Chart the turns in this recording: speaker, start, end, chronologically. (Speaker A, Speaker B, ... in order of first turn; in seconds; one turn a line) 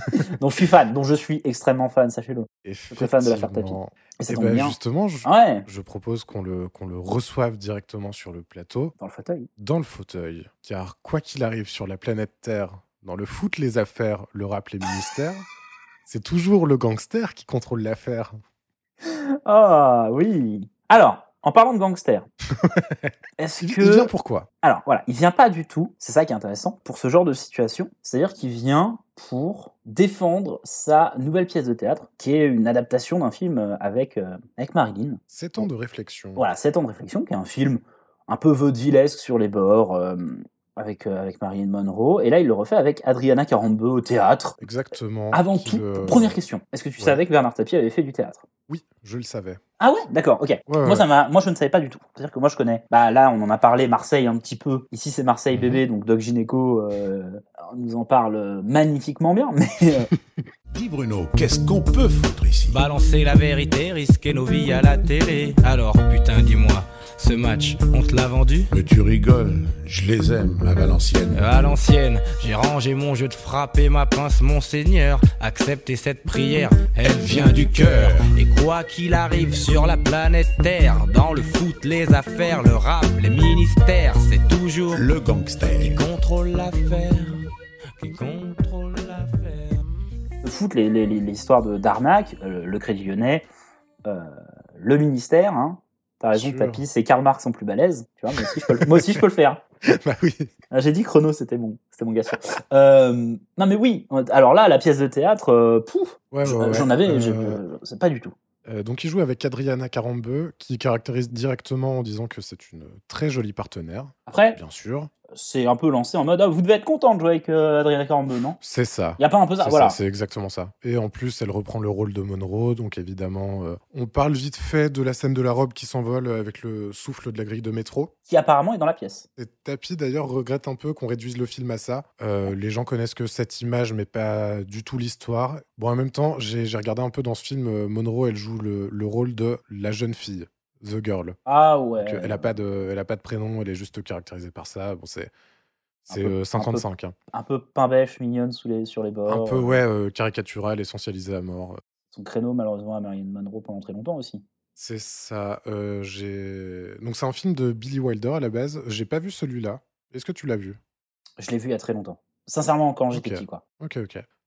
Speaker A: 0.2-5.7
Speaker B: 2.6-8.9
Speaker A: 9.0-9.5
Speaker B: 9.6-15.5
Speaker B: 16.1-18.4
Speaker A: 19.0-22.3
Speaker B: 22.6-24.5
Speaker A: 23.4-24.1
Speaker A: 24.6-35.7
Speaker B: 35.3-36.4
Speaker A: 36.4-44.6
Speaker B: 44.6-46.4
Speaker A: 45.3-48.4
Speaker B: 48.7-49.6
Speaker A: 49.8-60.1
Speaker B: 50.7-51.1
Speaker B: 55.5-55.8
Speaker C: 60.7-62.8
Speaker D: 62.7-68.7
Speaker C: 68.7-71.6
Speaker D: 71.3-85.1
Speaker C: 77.0-78.3
Speaker C: 84.9-86.0
Speaker D: 85.8-87.5
Speaker D: 88.0-89.8
Speaker A: 90.4-93.5
Speaker A: 94.0-99.6
Speaker B: 96.3-96.8
Speaker B: 98.3-99.2
Speaker B: 99.9-100.5
Speaker A: 100.7-108.3
Speaker B: 106.3-107.6
Speaker B: 108.7-115.1
Speaker A: 114.3-114.6
Speaker A: 115.3-118.6
Speaker B: 118.6-128.1
Speaker A: 119.2-120.0
Speaker A: 128.3-129.3
Speaker B: 129.4-141.4
Speaker A: 141.5-142.6
Speaker B: 142.0-145.3
Speaker B: 146.1-147.2
Speaker A: 146.1-149.8
Speaker B: 149.3-151.8
Speaker A: 152.1-154.4
Speaker B: 154.8-160.8
Speaker A: 161.4-163.6
Speaker B: 163.1-164.3